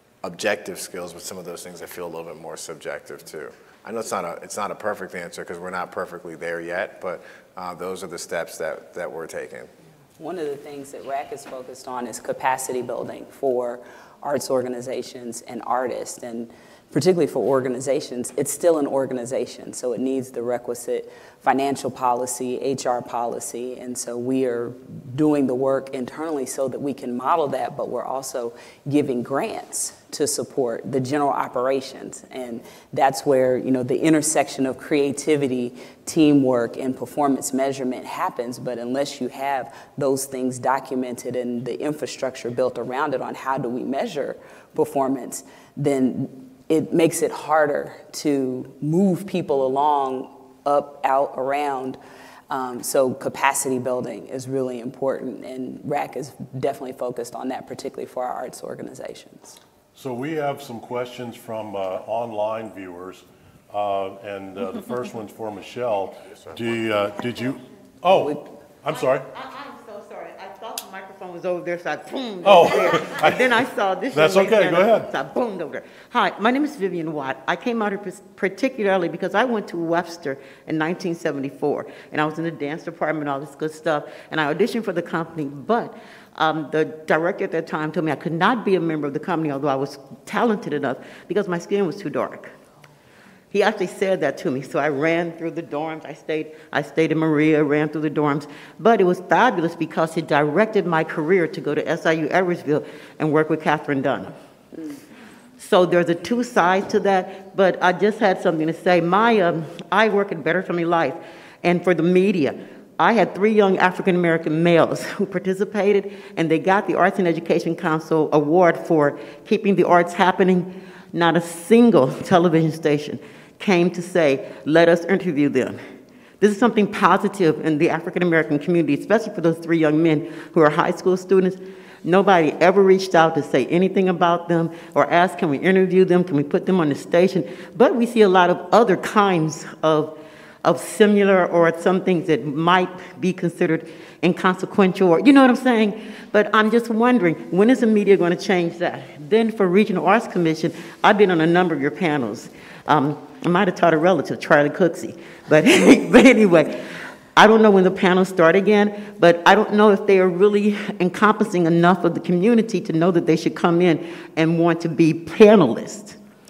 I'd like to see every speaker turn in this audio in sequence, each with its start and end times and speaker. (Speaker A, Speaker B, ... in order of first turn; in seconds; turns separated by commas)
Speaker A: 0.2-9.7, Speaker B: 10.2-52.0, Speaker B: 52.5-59.6, Speaker C: 59.9-69.2, Speaker B: 68.1-68.5, Speaker D: 69.3-92.5, Speaker C: 72.4-73.5, Speaker C: 74.1-75.1, Speaker D: 93.5-104.3, Speaker D: 105.6-125.8, Speaker D: 126.4-166.2